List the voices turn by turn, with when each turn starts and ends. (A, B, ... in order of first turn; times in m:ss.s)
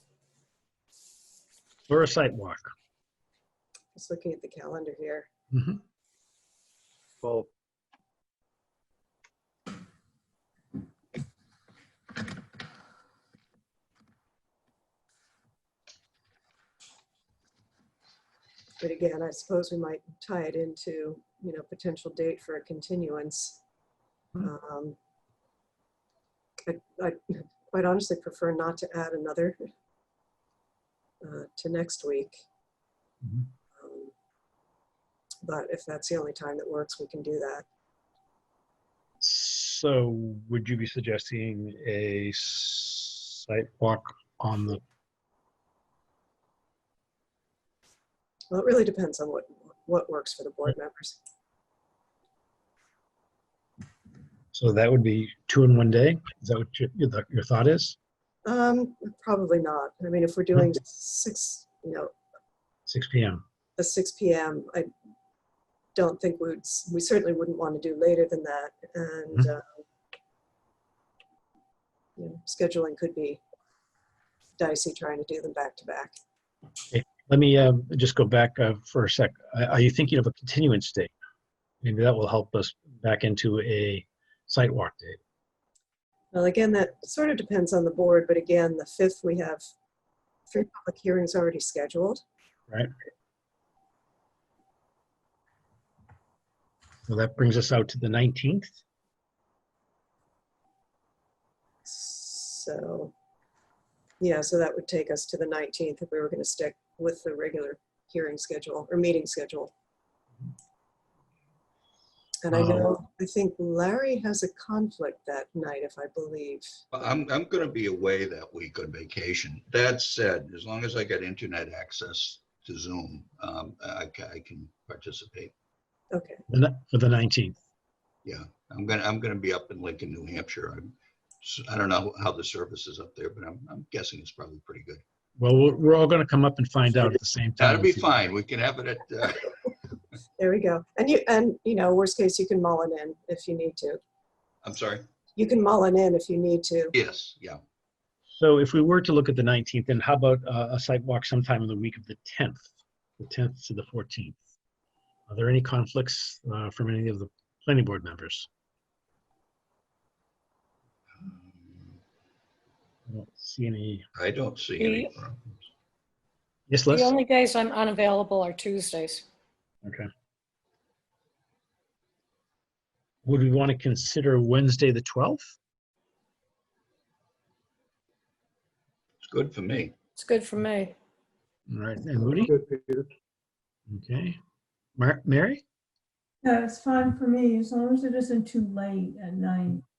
0:01.9-0:02.7 A
0:04.0-0:05.3 B
0:05.5-0:05.8 A
0:18.8-0:23.6 B
0:24.4-0:25.0 B
0:26.6-0:29.6 B
0:31.2-0:32.4 B
0:33.7-0:34.1 B
0:35.4-0:37.6 B
0:39.2-0:44.8 A
0:48.5-0:51.2 B
0:54.5-0:58.0 A
0:58.5-1:02.1 B
1:02.9-1:03.4 A
1:03.8-1:04.9 B
1:06.0-1:09.6 B
1:12.2-1:13.4 B
1:14.6-1:16.2 B
1:16.9-1:21.1 A
1:21.8-1:25.2 A
1:26.3-1:29.6 B
1:30.5-1:32.2 B
1:37.1-1:38.8 A
1:41.8-1:43.1 B
1:44.2-1:49.7 B
1:52.4-1:56.8 B
1:52.5-1:52.9 A
1:56.9-2:05.5 C
2:06.1-2:06.4 B
2:06.5-2:07.6 A
2:08.2-2:15.0 C
2:15.4-2:18.1 A
2:17.6-2:19.5 C
2:20.4-2:24.0 B
2:24.6-2:25.1 C
2:25.4-2:26.9 B
2:26.9-2:27.6 C
2:28.3-2:32.7 A
2:33.2-2:34.4 A
2:35.3-2:38.5 A
2:41.2-2:41.9 C
2:43.1-2:44.0 A
2:44.2-2:45.5 C
2:44.8-2:45.1 D
2:46.7-2:47.1 A
2:46.9-2:49.2 D
2:53.2-2:55.5 A
2:59.2-2:59.9 C
3:00.2-3:00.9 D
3:01.7-3:02.6 A
3:03.9-3:04.4 A
3:05.0-3:05.6 A
3:06.4-3:09.8 E